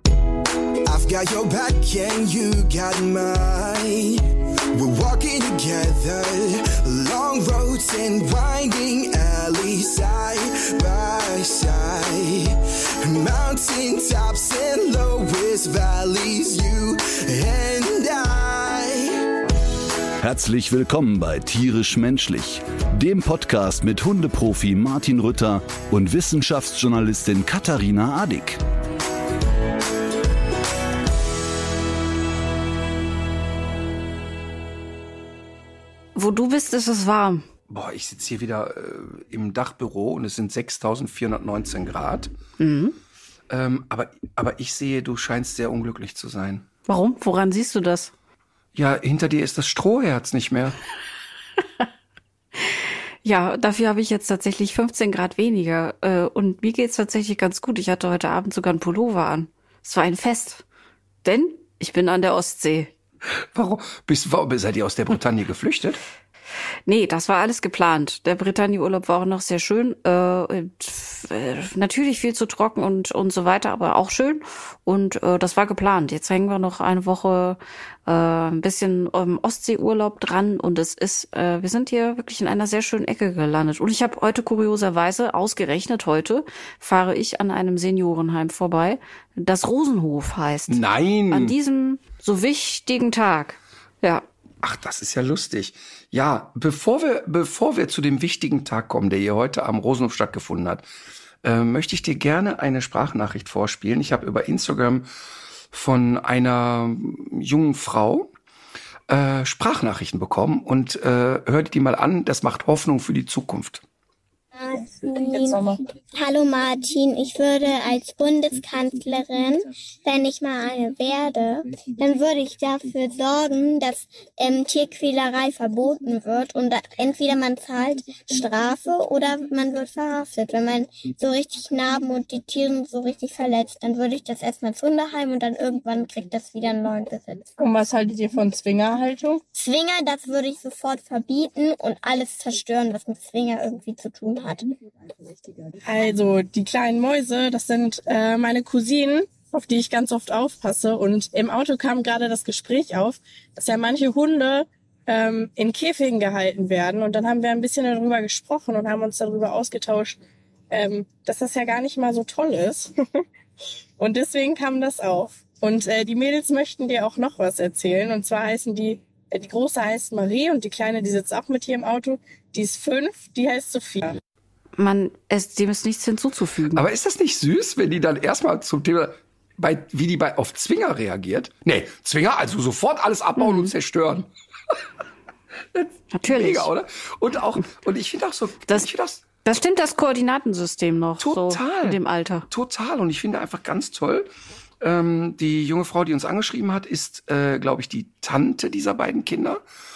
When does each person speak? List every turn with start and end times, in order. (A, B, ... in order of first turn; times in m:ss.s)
0:00.8-0:04.2 A
0:04.7-0:19.2 A
0:20.2-0:28.6 B
0:36.2-0:37.4 C
0:37.7-0:42.3 D
0:42.6-0:43.0 C
0:43.5-0:46.7 D
0:46.9-0:48.1 C
0:48.7-0:50.8 D
0:52.6-1:00.6 C
1:01.2-1:02.9 C
1:03.5-1:06.0 D
1:06.9-1:34.2 C
1:30.7-1:31.5 D
1:34.6-1:40.9 D
1:41.4-1:45.1 D
1:45.7-1:48.3 D
1:49.1-1:53.8 D
1:54.6-1:55.6 E
1:55.3-1:55.8 F
1:56.2-2:17.5 E
2:17.6-2:19.4 F
2:19.6-2:24.8 E
2:25.9-2:40.2 F
2:40.7-2:43.2 F
2:44.0-2:54.2 F
2:54.8-2:56.8 C
2:56.7-3:04.8 D
3:03.4-3:03.7 C
3:05.7-3:09.2 D
3:06.1-3:06.7 C
3:09.4-3:12.5 C
3:11.2-3:14.3 D
3:14.8-3:19.6 D